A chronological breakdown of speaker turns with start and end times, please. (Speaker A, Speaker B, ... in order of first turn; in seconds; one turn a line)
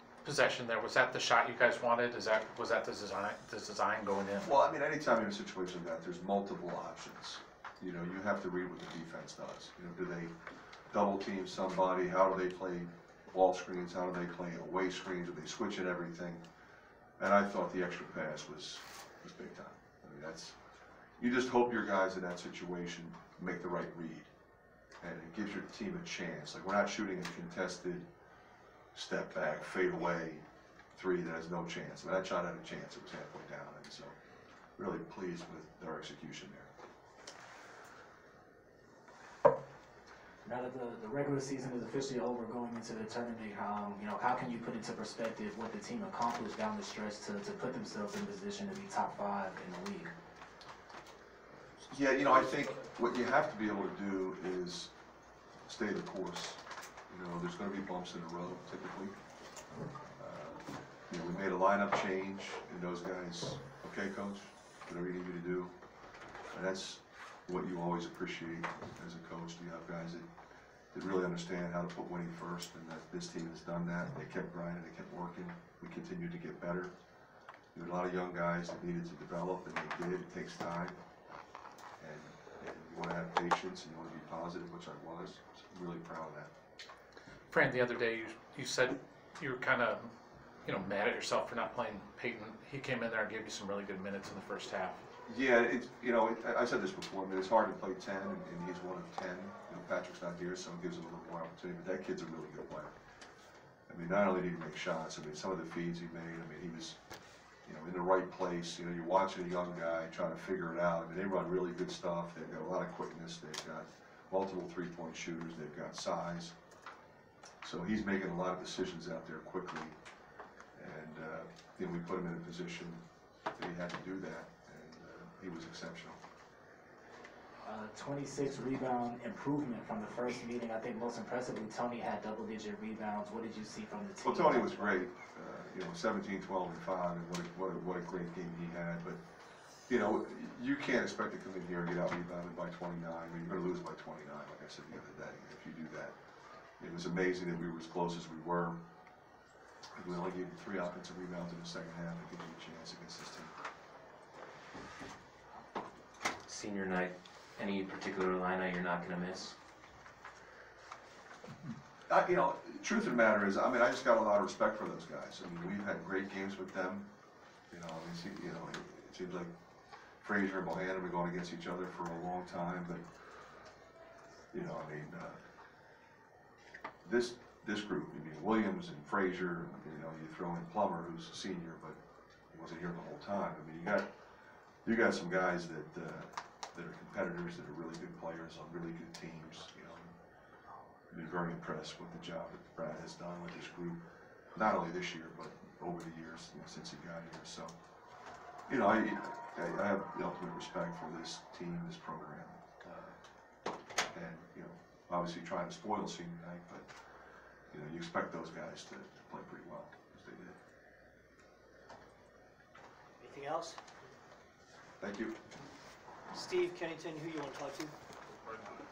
Speaker A: 0.2-4.5
Speaker B: 4.4-10.3
Speaker B: 10.9-16.4
Speaker B: 17.2-20.6
Speaker B: 21.2-24.3
Speaker B: 25.0-28.1
Speaker B: 28.9-34.1
Speaker B: 34.8-36.7
Speaker C: 40.4-50.1
Speaker B: 51.9-54.9
Speaker B: 55.7-59.2
Speaker B: 60.2-65.8
Speaker B: 66.5-70.3
Speaker B: 70.9-76.9
Speaker B: 77.7-81.0
Speaker B: 82.0-86.5
Speaker A: 87.5-90.1
Speaker A: 90.7-95.0
Speaker B: 95.2-102.9
Speaker B: 103.9-107.0
Speaker B: 107.6-116.5
Speaker B: 117.6-120.0
Speaker B: 120.8-123.0
Speaker B: 123.5-126.2
Speaker C: 127.6-134.9
Speaker B: 134.2-139.2
Speaker B: 139.9-146.2
Speaker B: 146.8-148.8
Speaker B: 149.9-153.6
Speaker D: 156.4-159.6
Speaker B: 162.1-167.1
Speaker B: 167.7-169.5
Speaker B: 170.2-173.1
Speaker B: 174.5-175.4
Speaker B: 177.0-182.0
Speaker B: 182.5-184.1
Speaker B: 184.8-190.2
Speaker B: 191.1-194.0
Speaker B: 194.5-197.7
Speaker B: 198.7-203.2
Speaker B: 204.0-206.9
Speaker B: 207.7-210.6
Speaker E: 213.2-213.8
Speaker B: 215.0-215.4
Speaker E: 216.3-217.9